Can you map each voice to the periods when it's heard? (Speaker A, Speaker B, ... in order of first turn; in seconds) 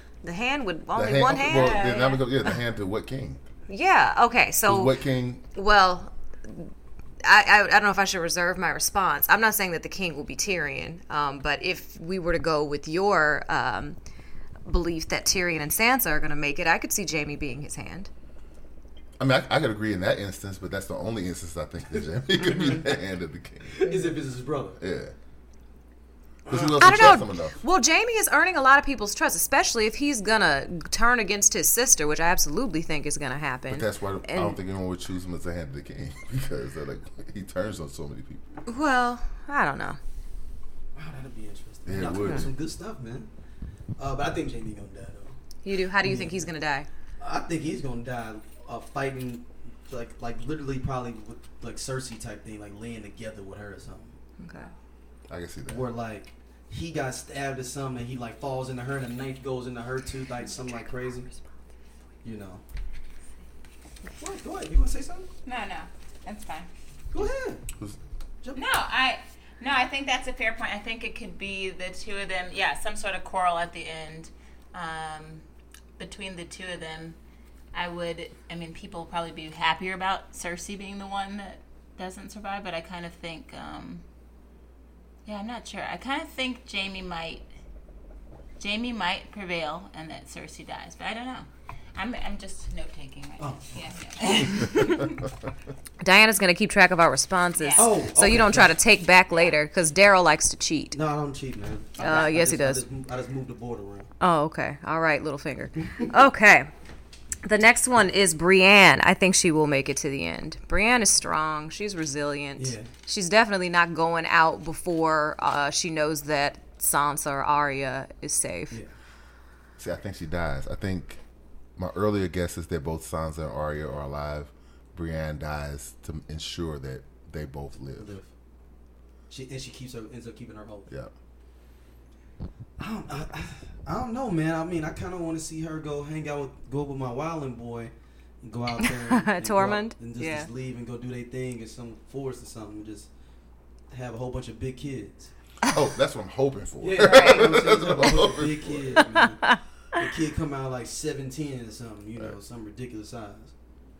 Speaker A: 0.2-2.1, 3.7-4.9, 5.5-6.7, 7.2-14.0, 14.7-18.1, 26.8-34.6, 38.6-40.0, 45.6-46.9, 54.4-54.7, 96.0-101.0, 102.0-102.8, 104.2-106.7, 107.4-118.8, 139.0-140.5, 147.0-147.5
Speaker B: 0.9-3.4, 4.7-5.4, 19.2-24.0, 24.8-25.1, 26.5-27.6, 33.7-38.4, 41.9-42.5, 55.3-55.8, 119.8-121.2, 121.8-128.2, 145.6-149.2
Speaker C: 1.4-2.2, 65.4-66.7, 68.5-75.4, 76.0-77.2, 77.7-84.0, 85.2-87.4, 88.6-95.2, 97.6-97.9
Speaker D: 23.7-24.8, 26.4-27.1, 40.9-43.3, 44.0-45.4, 46.0-46.5, 47.2-54.1, 55.7-61.3, 62.2-62.6, 64.2-65.3, 67.1-67.6, 93.4-95.0, 97.8-98.7, 100.9-104.1, 105.8-106.1, 112.6-112.9, 128.0-128.3, 129.3-130.9, 132.8-143.1, 143.9-145.3, 146.8-153.5